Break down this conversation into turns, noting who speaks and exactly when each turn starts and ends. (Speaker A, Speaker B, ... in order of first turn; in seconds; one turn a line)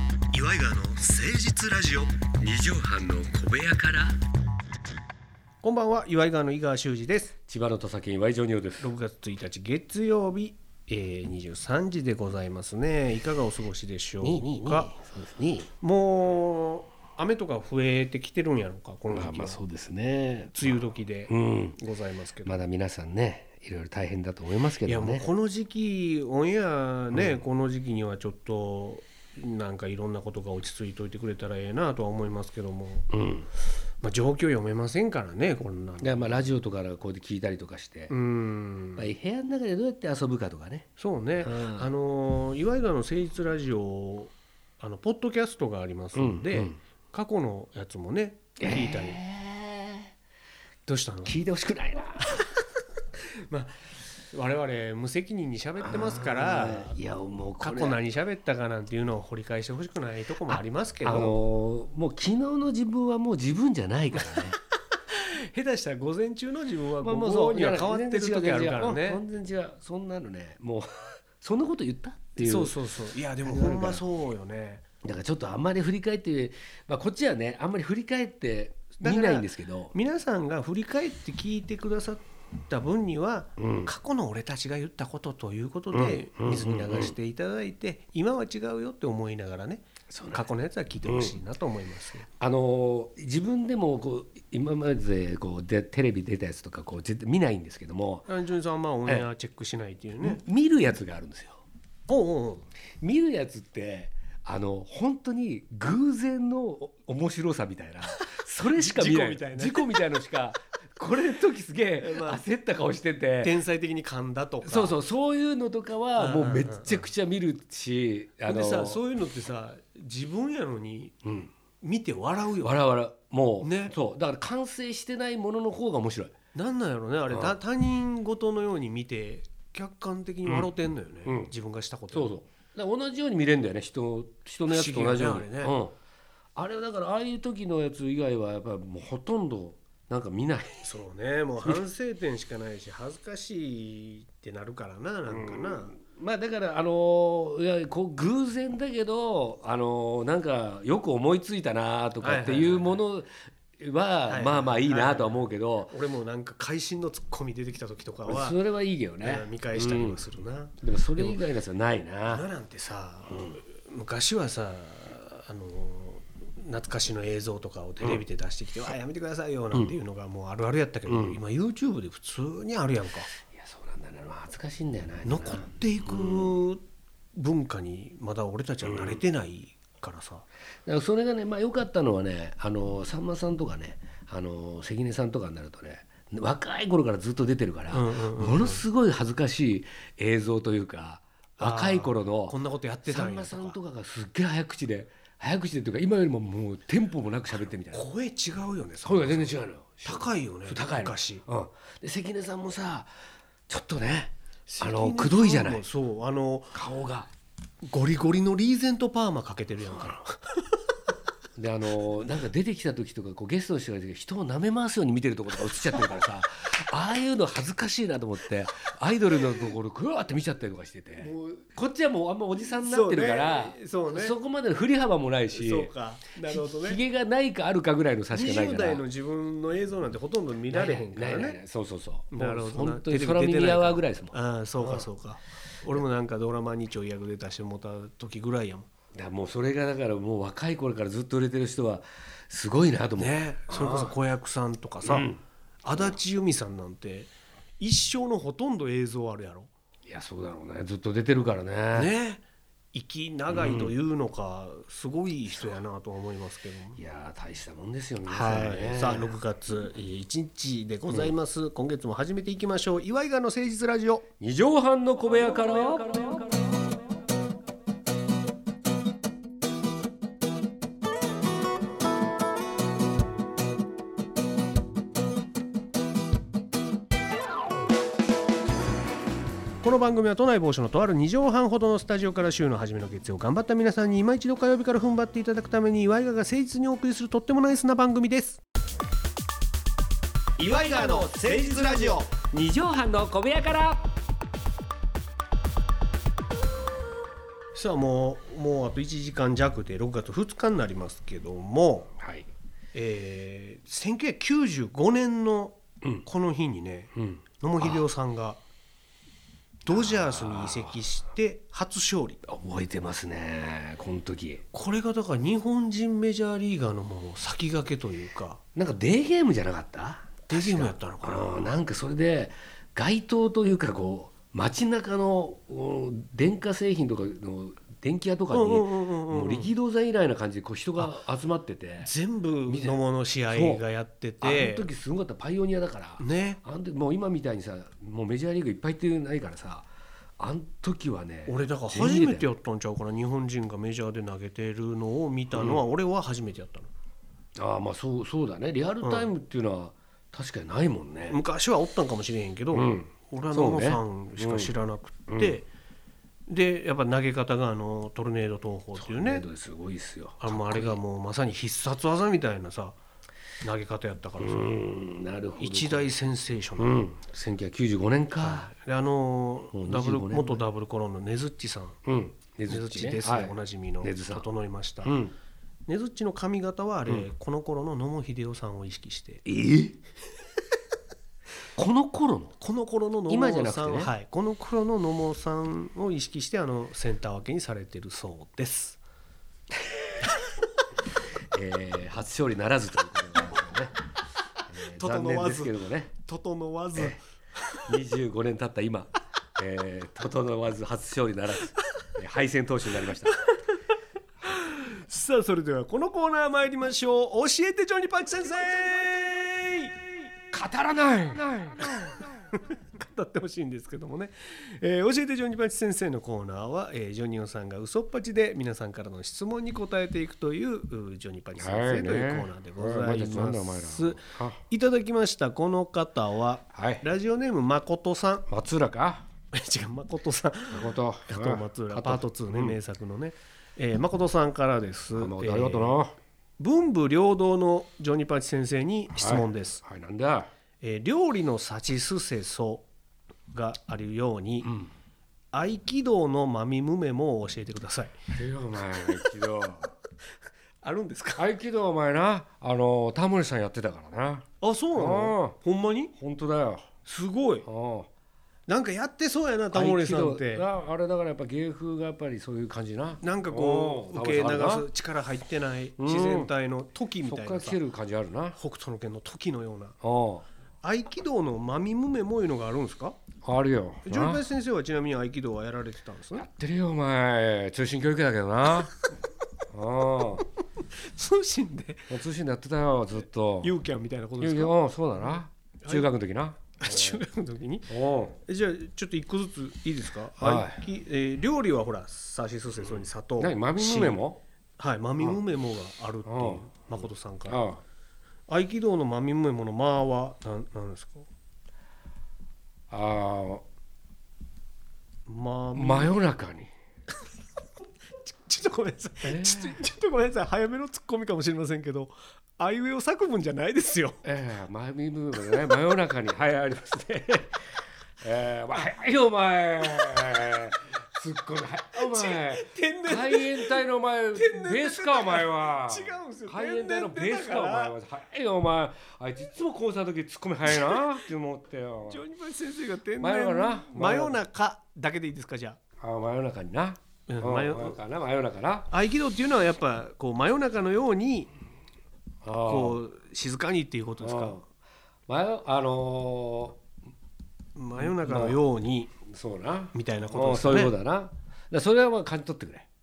Speaker A: 0.3-2.2
Speaker B: 2.3-4.2
Speaker A: 5.6-7.3
Speaker B: 7.5-8.9
Speaker A: 8.8-14.9
Speaker B: 14.2-15.7
Speaker A: 15.8-19.6
Speaker B: 19.1-21.8
Speaker A: 20.5-22.5
Speaker B: 22.4-25.3
Speaker A: 24.9-33.1
Speaker B: 27.1-27.4
Speaker B: 33.1-33.5
Speaker A: 34.0-36.4
Speaker B: 36.0-38.1
Speaker A: 38.1-39.1
Speaker B: 39.0-41.9
Speaker A: 41.0-49.2
Speaker B: 46.1-46.8
Speaker B: 48.6-50.1
Speaker A: 50.9-51.4
Speaker B: 51.3-52.4
Speaker A: 53.5-57.0
Speaker B: 55.8-58.0
Speaker A: 57.6-61.4
Speaker B: 60.5-64.6
Speaker A: 65.1-69.2
Speaker B: 67.0-72.8
Speaker A: 72.4-74.8
Speaker B: 73.4-74.0
Speaker B: 75.0-79.9
Speaker A: 79.0-92.3
Speaker B: 83.6-83.9
Speaker B: 85.9-87.2
Speaker B: 90.1-90.4
Speaker B: 91.1-91.3
Speaker B: 92.4-98.3
Speaker A: 98.3-100.4
Speaker B: 100.2-101.6
Speaker A: 102.1-102.7
Speaker B: 103.0-113.5
Speaker A: 108.7-110.0
Speaker A: 112.0-112.4
Speaker A: 113.4-115.0
Speaker B: 114.6-119.0
Speaker A: 116.2-117.1
Speaker A: 118.5-121.2
Speaker B: 121.2-121.5
Speaker A: 121.8-122.8
Speaker B: 122.6-126.3
Speaker A: 123.6-123.9
Speaker A: 126.5-132.4
Speaker B: 127.3-127.6
Speaker B: 131.3-131.5
Speaker B: 132.1-135.9
Speaker A: 134.7-135.8
Speaker B: 136.6-140.9
Speaker A: 140.8-145.9
Speaker B: 145.3-155.9
Speaker A: 152.2-153.0
Speaker A: 154.3-158.6
Speaker B: 158.3-160.2
Speaker A: 159.2-161.4
Speaker B: 160.8-162.4
Speaker A: 162.3-173.3
Speaker B: 163.3-163.6
Speaker B: 171.1-171.4
Speaker B: 173.5-176.5
Speaker A: 175.2-176.8
Speaker A: 177.3-180.5
Speaker B: 178.9-179.2
Speaker B: 180.9-192.6
Speaker A: 187.9-188.8
Speaker A: 191.6-193.8
Speaker B: 193.1-198.0
Speaker A: 197.9-201.4
Speaker B: 199.0-203.1
Speaker B: 203.7-205.8
Speaker A: 204.7-206.8
Speaker B: 206.7-207.3
Speaker A: 207.9-210.4
Speaker B: 211.6-225.9
Speaker A: 221.2-221.7
Speaker A: 222.7-224.3
Speaker A: 225.5-227.0
Speaker B: 226.4-229.0
Speaker A: 228.3-231.6
Speaker B: 230.7-235.1
Speaker A: 232.3-238.9
Speaker B: 239.1-244.1
Speaker A: 243.2-245.3
Speaker B: 245.0-245.4
Speaker A: 245.8-249.7
Speaker B: 250.1-252.1
Speaker A: 251.9-252.4
Speaker A: 252.9-257.0
Speaker B: 253.5-253.9
Speaker B: 257.0-259.4
Speaker A: 258.3-264.3
Speaker B: 264.4-266.6
Speaker A: 279.8-288.6
Speaker B: 290.6-294.1
Speaker A: 290.6-292.3
Speaker A: 297.7-302.1
Speaker B: 302.2-302.5
Speaker A: 302.9-308.6
Speaker B: 307.2-308.0
Speaker A: 309.9-312.4
Speaker B: 309.9-311.0
Speaker B: 312.5-314.6
Speaker A: 314.7-318.6
Speaker B: 318.8-332.1
Speaker A: 320.5-321.8
Speaker A: 328.5-329.7
Speaker A: 332.0-334.9
Speaker B: 332.7-333.0
Speaker B: 333.5-333.8
Speaker B: 334.4-339.9
Speaker A: 336.2-336.6
Speaker B: 340.4-342.5
Speaker A: 341.5-346.9
Speaker B: 345.5-345.8
Speaker B: 347.6-351.4
Speaker A: 349.0-349.3
Speaker A: 351.3-355.7
Speaker B: 352.7-354.7
Speaker B: 355.3-355.6
Speaker A: 356.5-359.5
Speaker B: 359.0-361.0
Speaker A: 360.4-363.0
Speaker A: 363.6-364.8
Speaker B: 364.4-366.1
Speaker A: 365.6-367.0
Speaker B: 366.8-368.7
Speaker A: 368.4-372.0
Speaker B: 369.7-370.6
Speaker B: 372.1-374.5
Speaker A: 372.7-375.2
Speaker B: 375.0-375.3
Speaker A: 375.9-379.4
Speaker B: 379.4-380.0
Speaker B: 381.8-382.6
Speaker A: 382.6-389.0
Speaker B: 383.3-384.1
Speaker B: 391.5-394.0
Speaker B: 394.7-396.1
Speaker A: 394.9-397.8
Speaker B: 397.9-403.4
Speaker A: 404.5-410.0
Speaker B: 410.5-412.3
Speaker A: 412.5-428.5
Speaker B: 421.6-424.6
Speaker B: 426.7-427.0
Speaker B: 428.5-429.2
Speaker A: 429.5-436.0
Speaker B: 430.7-432.8
Speaker B: 435.1-436.1
Speaker A: 436.6-439.8
Speaker B: 439.1-440.5
Speaker A: 440.8-442.9
Speaker A: 443.5-444.7
Speaker A: 445.5-448.2
Speaker B: 448.3-449.9
Speaker A: 450.8-451.4
Speaker B: 451.4-455.6
Speaker A: 454.6-456.1
Speaker B: 456.2-456.9
Speaker A: 457.1-457.7
Speaker B: 457.6-458.1
Speaker A: 458.7-460.7
Speaker B: 459.7-464.9
Speaker A: 463.2-467.8
Speaker B: 466.0-466.5
Speaker B: 467.2-468.6
Speaker A: 468.5-470.0
Speaker B: 470.0-470.4
Speaker A: 470.8-473.2
Speaker B: 473.4-474.4
Speaker A: 474.1-476.5
Speaker B: 476.3-478.9
Speaker B: 479.7-480.4
Speaker A: 480.8-482.1
Speaker B: 482.1-483.7
Speaker A: 483.6-484.7
Speaker B: 484.4-487.2
Speaker A: 485.8-486.1
Speaker A: 486.8-487.9
Speaker B: 487.9-488.4
Speaker A: 488.4-494.2
Speaker B: 490.4-490.8
Speaker B: 493.4-494.4
Speaker A: 494.8-497.6
Speaker B: 496.3-496.7
Speaker B: 497.5-497.8
Speaker A: 498.5-501.3
Speaker B: 502.9-503.6
Speaker A: 505.3-506.2
Speaker B: 505.8-506.7
Speaker A: 508.2-514.2
Speaker B: 509.2-509.8
Speaker B: 514.2-532.2
Speaker A: 521.9-523.8
Speaker A: 524.4-528.0
Speaker A: 530.7-531.0
Speaker A: 532.1-535.8
Speaker B: 533.2-534.4
Speaker B: 536.0-538.9
Speaker A: 537.3-538.0
Speaker A: 538.9-541.5
Speaker B: 542.4-543.0
Speaker A: 542.6-544.6
Speaker B: 544.2-544.6
Speaker B: 545.3-546.8
Speaker A: 547.8-549.1
Speaker B: 548.0-548.6
Speaker B: 549.3-552.9
Speaker A: 549.9-551.0